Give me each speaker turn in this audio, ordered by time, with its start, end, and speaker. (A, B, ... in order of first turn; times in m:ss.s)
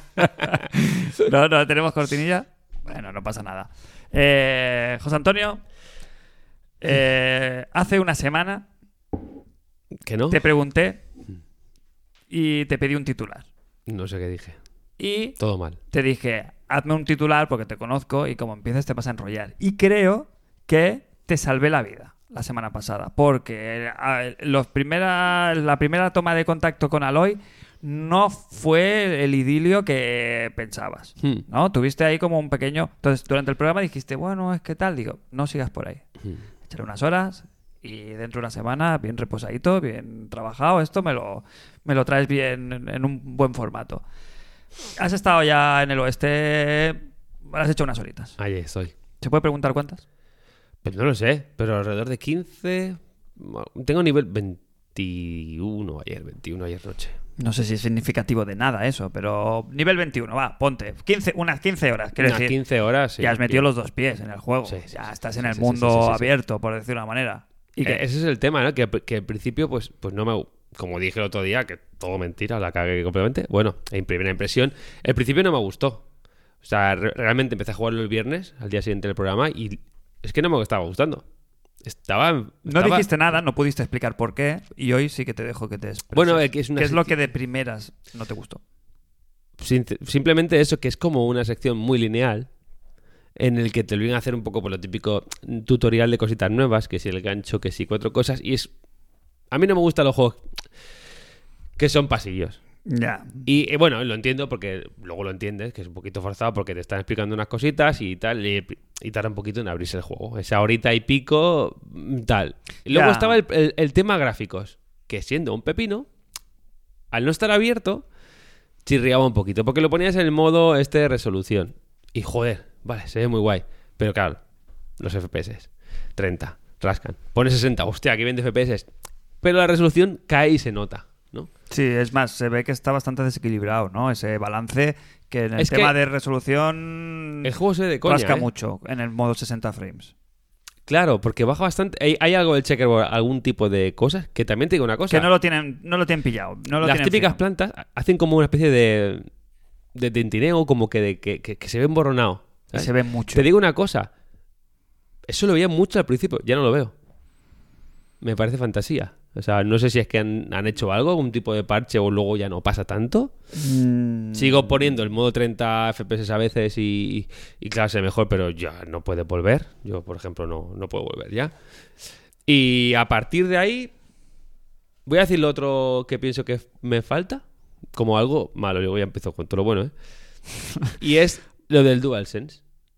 0:00.2-0:05.6 A
0:06.8-0:08.7 A
0:10.1-0:10.4 B
0:10.3-0:11.0 A
0:12.3-0:13.5 A
0:13.9-0:14.6 B
0:15.0-0:15.4 A
0:15.4-0:15.8 B
0:15.9-0:36.0 A
0:36.7-0:44.0 A
0:45.0-0:48.4 A
0:48.4-0:48.9 B
0:49.2-0:50.0 A
0:50.8-0:57.2 B
0:57.4-1:02.6 A
1:02.2-1:03.7 B
1:03.2-1:08.0 A
1:04.6-1:06.3 B
1:07.8-1:16.0 B
1:16.6-1:21.2 B
1:21.8-1:23.1 B
1:22.6-1:28.6 A
1:26.1-1:27.1 B
1:29.6-1:32.5 B
1:33.4-1:38.7 B
1:39.5-1:40.4 B
1:41.8-1:42.6 B
1:42.9-1:43.4 A
1:43.4-1:56.1 B
1:52.9-1:53.4 A
1:57.1-1:58.0 B
1:58.8-2:04.4 B
2:05.0-2:08.9 B
2:09.4-2:11.5 B
2:11.7-2:17.5 A
2:15.6-2:15.9 B
2:17.4-2:18.5 B
2:18.0-2:20.1 A
2:20.9-2:25.3 B
2:25.1-2:27.4 A
2:26.8-2:29.3 B
2:30.0-2:34.1 B
2:32.7-2:33.5 A
2:35.3-2:36.9 B
2:38.2-2:43.3 B
2:43.5-2:44.9 A
2:44.4-2:51.5 B
2:52.5-2:53.9 B
2:55.1-2:57.4 B
2:58.0-2:59.9 B
3:00.9-3:02.6 B